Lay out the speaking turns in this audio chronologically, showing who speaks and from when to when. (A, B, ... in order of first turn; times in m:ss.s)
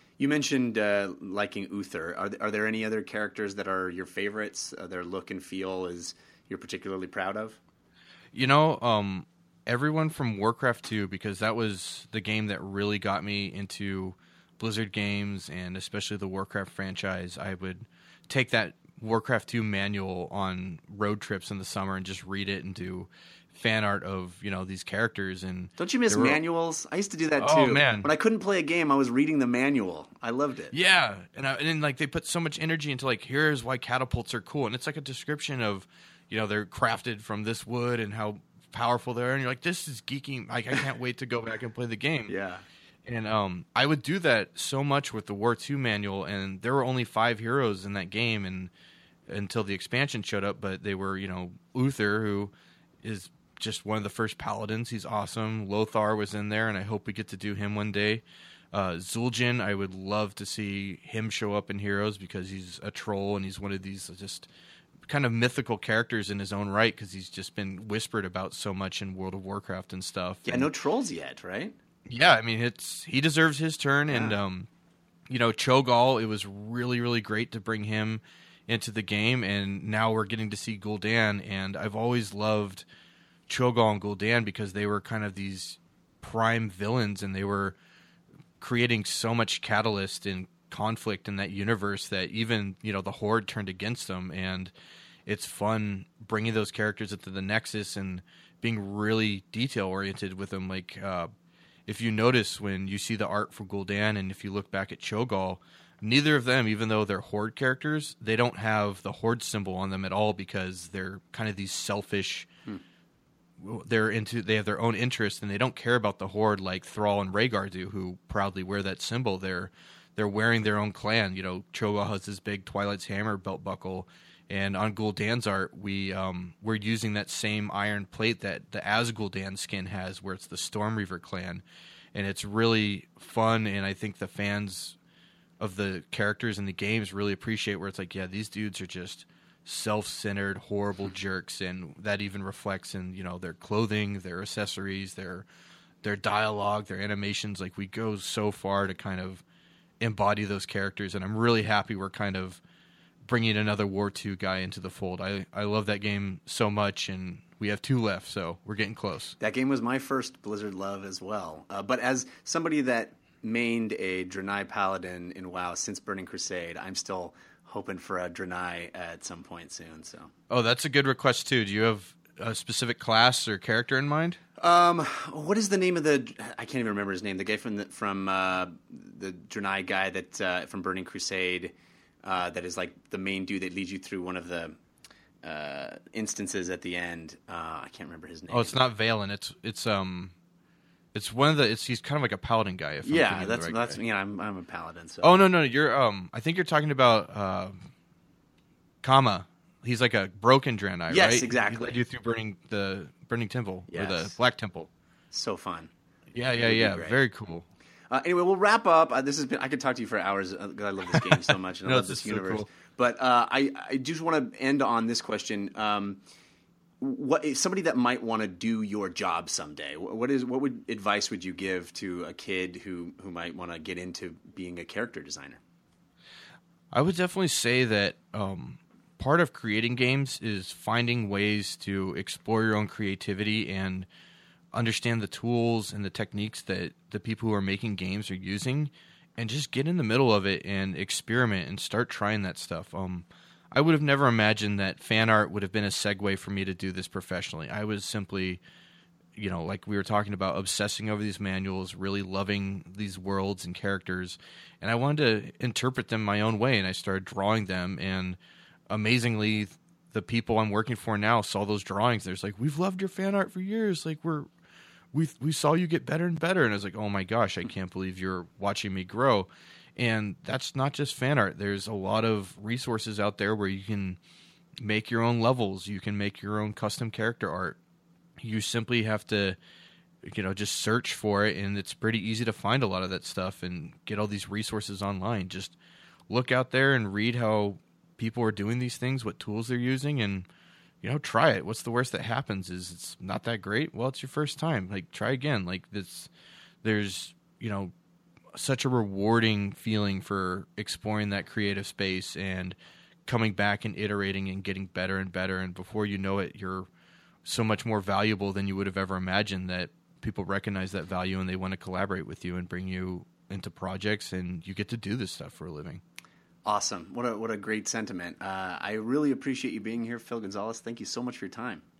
0:00.2-0:07.6 A
0:08.3-0:26.4 B
0:25.8-0:30.7 A
0:27.4-0:28.1 B
0:30.7-0:42.4 B
0:42.3-0:42.6 A
0:43.0-0:48.7 B
0:49.3-0:52.5 B
0:53.0-1:04.5 B
1:05.1-1:10.7 B
1:10.4-1:11.8 A
1:12.1-1:14.7 B
1:14.1-1:14.4 A
1:15.3-1:22.9 B
1:23.5-1:27.8 B
1:28.6-1:34.7 B
1:35.3-1:41.3 B
1:41.9-1:52.5 B
1:53.6-2:15.0 B
2:15.6-2:25.5 B
2:26.0-2:29.4 B
2:30.0-2:32.6 B
2:33.2-2:39.4 B
2:39.4-2:50.3 A
2:50.5-2:54.4 B
2:54.6-3:04.8 A
3:05.4-3:08.8 A
3:08.5-3:10.3 B
3:11.1-3:14.0 B
3:13.0-3:15.5 A
3:15.2-3:17.8 B
3:19.0-3:24.9 B
3:21.1-3:22.0 A
3:23.9-3:24.4 A
3:25.3-3:25.9 A
3:26.3-3:27.7 B
3:26.6-3:27.2 A
3:28.1-3:36.2 A
3:31.8-3:32.7 B
3:37.0-3:45.6 A
3:46.9-3:54.1 B
3:54.7-4:08.6 B
4:09.4-4:18.4 B
4:18.9-4:24.5 B
4:25.1-4:34.2 B
4:34.8-4:37.8 B
4:38.4-4:39.6 B
4:40.2-4:45.8 B
4:46.3-4:50.5 B
4:51.0-4:56.3 B
4:56.8-4:57.9 B
4:58.5-5:06.9 B
5:07.4-5:16.0 B
5:16.6-5:21.8 A